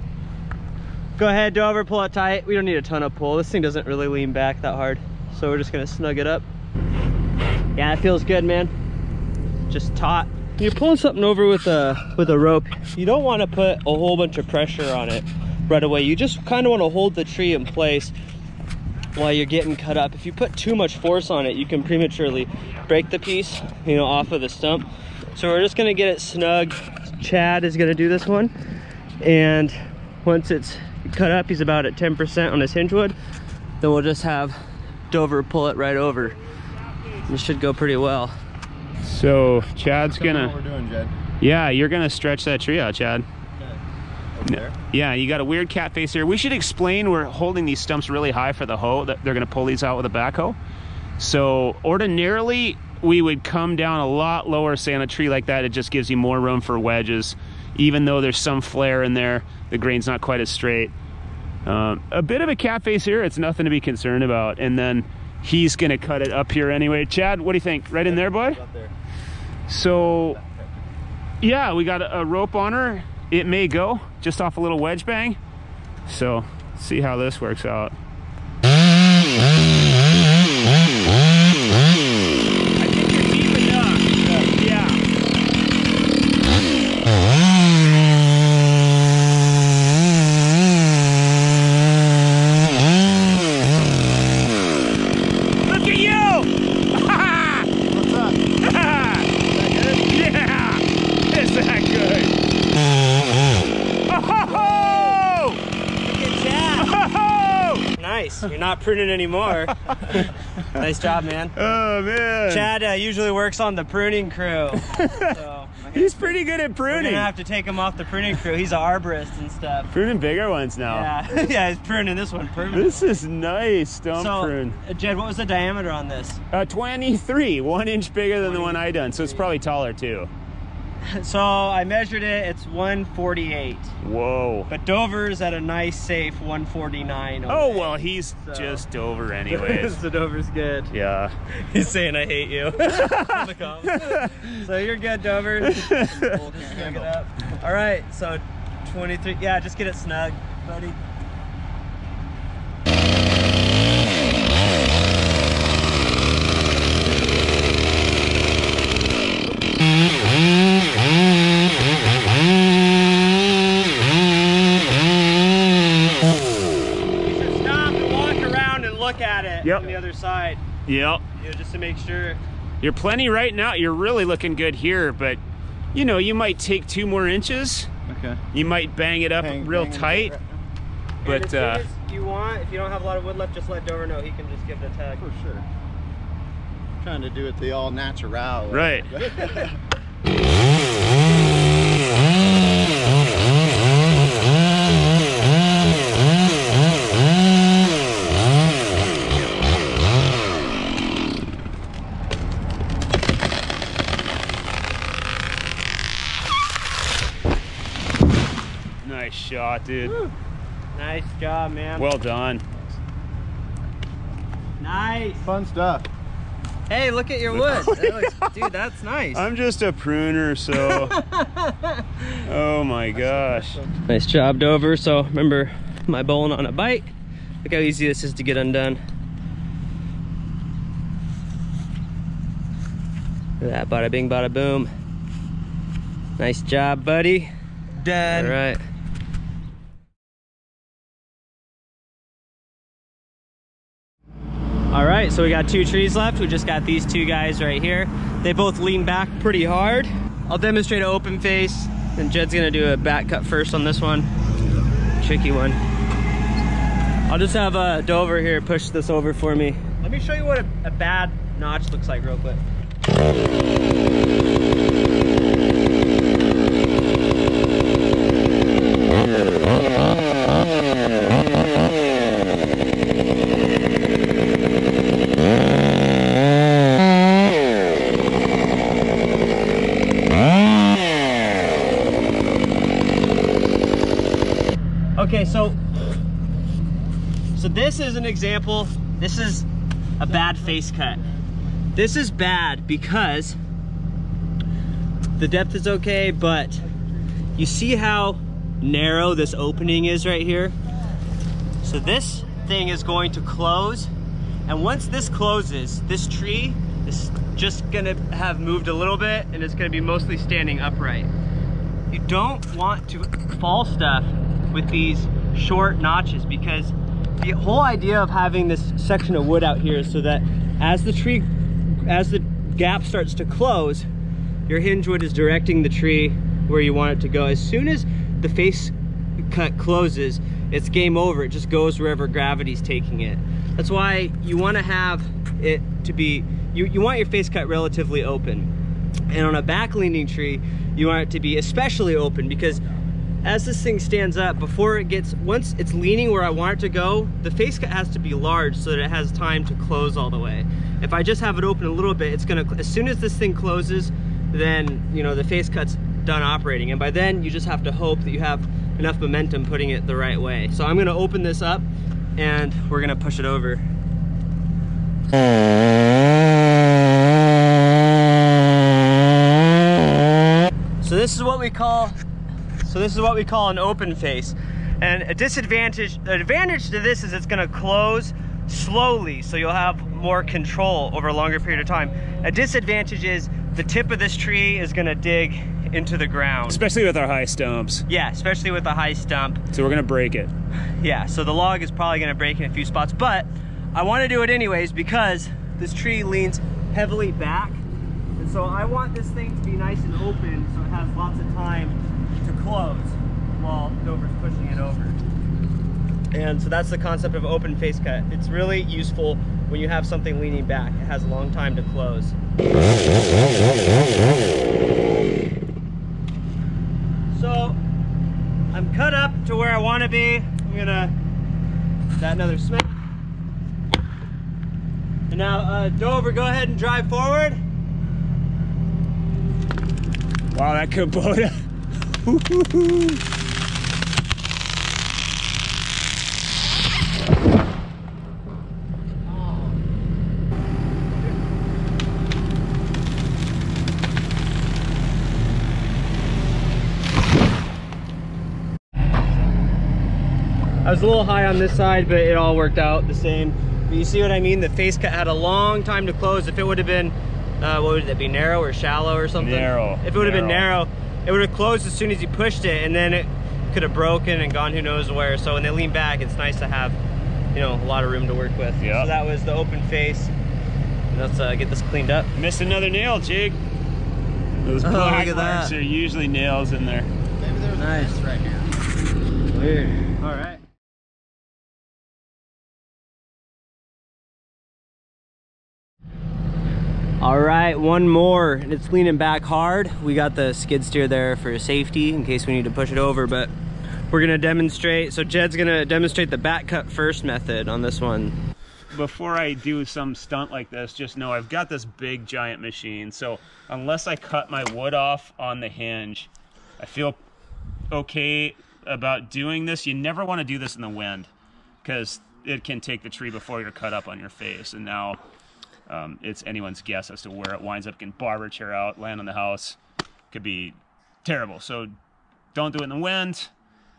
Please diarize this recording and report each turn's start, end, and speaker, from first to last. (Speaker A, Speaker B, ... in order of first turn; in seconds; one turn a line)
Speaker A: 1.2-6.5
Speaker A: 7.8-8.7
Speaker A: 9.7-18.1
Speaker A: 19.1-28.5
Speaker A: 29.2-33.1
Speaker A: 33.8-34.6
Speaker A: 35.1-36.4
Speaker B: 36.8-37.3
Speaker A: 37.3-38.4
Speaker B: 39.0-40.5
Speaker C: 40.0-41.1
Speaker B: 41.4-43.3
Speaker C: 44.4-44.7
Speaker B: 44.4-50.6
Speaker B: 51.2-60.9
Speaker B: 61.6-68.6
Speaker C: 68.2-68.9
Speaker B: 69.7-70.4
Speaker C: 70.1-70.6
Speaker B: 71.4-75.4
Speaker B: 76.0-78.0
Speaker B: 82.8-85.0
Speaker B: 95.6-97.7
Speaker C: 97.8-98.5
Speaker B: 98.6-99.4
Speaker C: 99.5-100.0
Speaker B: 100.0-102.4
Speaker B: 104.1-105.6
Speaker A: 104.5-105.1
Speaker A: 106.0-106.9
Speaker B: 106.8-107.9
Speaker A: 108.0-111.5
Speaker B: 109.7-110.8
Speaker B: 111.5-112.7
Speaker A: 112.5-116.4
Speaker B: 114.8-115.4
Speaker B: 115.9-117.3
Speaker A: 116.9-119.9
Speaker B: 119.9-121.1
Speaker A: 120.9-123.2
Speaker B: 122.7-124.8
Speaker A: 124.1-126.4
Speaker B: 126.5-130.3
Speaker A: 128.4-129.4
Speaker A: 131.0-133.9
Speaker B: 134.0-134.7
Speaker A: 134.7-138.8
Speaker B: 137.5-140.0
Speaker A: 139.5-140.9
Speaker B: 140.9-141.3
Speaker A: 141.5-151.0
Speaker B: 142.8-144.6
Speaker B: 145.6-146.3
Speaker C: 146.1-147.1
Speaker A: 167.2-170.6
Speaker B: 169.6-170.0
Speaker B: 170.8-171.2
Speaker A: 171.4-172.4
Speaker B: 172.8-175.4
Speaker B: 175.9-177.9
Speaker C: 178.1-178.4
Speaker B: 178.5-180.3
Speaker C: 179.4-180.5
Speaker B: 181.2-181.8
Speaker A: 181.2-185.2
Speaker C: 185.2-185.6
Speaker C: 187.0-189.8
Speaker B: 188.7-189.2
Speaker B: 209.0-210.2
Speaker A: 210.0-210.3
Speaker A: 210.9-212.1
Speaker B: 212.0-212.6
Speaker A: 214.8-215.4
Speaker C: 215.4-216.1
Speaker A: 216.9-219.5
Speaker B: 217.5-218.7
Speaker B: 219.3-221.2
Speaker A: 220.8-222.4
Speaker B: 222.4-223.8
Speaker C: 223.4-223.7
Speaker A: 224.1-227.1
Speaker A: 227.6-229.0
Speaker A: 233.6-234.9
Speaker A: 236.4-237.5
Speaker A: 238.0-238.8
Speaker A: 244.9-254.3
Speaker A: 255.2-255.8
Speaker A: 257.3-262.6
Speaker A: 285.1-285.8
Speaker A: 287.6-289.6
Speaker A: 290.2-291.2
Speaker A: 291.9-293.6
Speaker A: 295.4-296.8
Speaker A: 297.6-300.7
Speaker A: 301.8-304.1
Speaker A: 304.7-311.3
Speaker A: 312.1-324.1
Speaker A: 324.7-338.7
Speaker A: 339.3-342.8
Speaker A: 343.4-361.9
Speaker A: 362.4-363.8
Speaker A: 371.0-372.2
Speaker A: 372.8-386.8
Speaker B: 386.7-388.0
Speaker A: 388.1-389.6
Speaker B: 389.7-390.5
Speaker A: 391.0-397.8
Speaker A: 398.4-405.2
Speaker A: 406.3-412.3
Speaker A: 417.3-417.8
Speaker A: 418.7-421.1
Speaker A: 422.2-422.9
Speaker A: 425.3-427.6
Speaker B: 430.5-431.6
Speaker B: 432.2-433.2
Speaker A: 450.8-467.0
Speaker B: 459.4-460.7
Speaker A: 467.5-470.3
Speaker B: 468.8-469.1
Speaker A: 471.1-472.3
Speaker B: 472.3-473.6
Speaker B: 474.6-477.1
Speaker A: 474.8-475.7
Speaker C: 477.4-478.7
Speaker A: 477.8-478.2
Speaker A: 479.5-480.6
Speaker A: 487.2-493.5
Speaker A: 494.1-498.4
Speaker B: 498.9-507.2
Speaker B: 507.9-511.3
Speaker B: 511.8-515.2
Speaker B: 515.9-519.8
Speaker B: 520.3-521.9
Speaker B: 522.5-523.5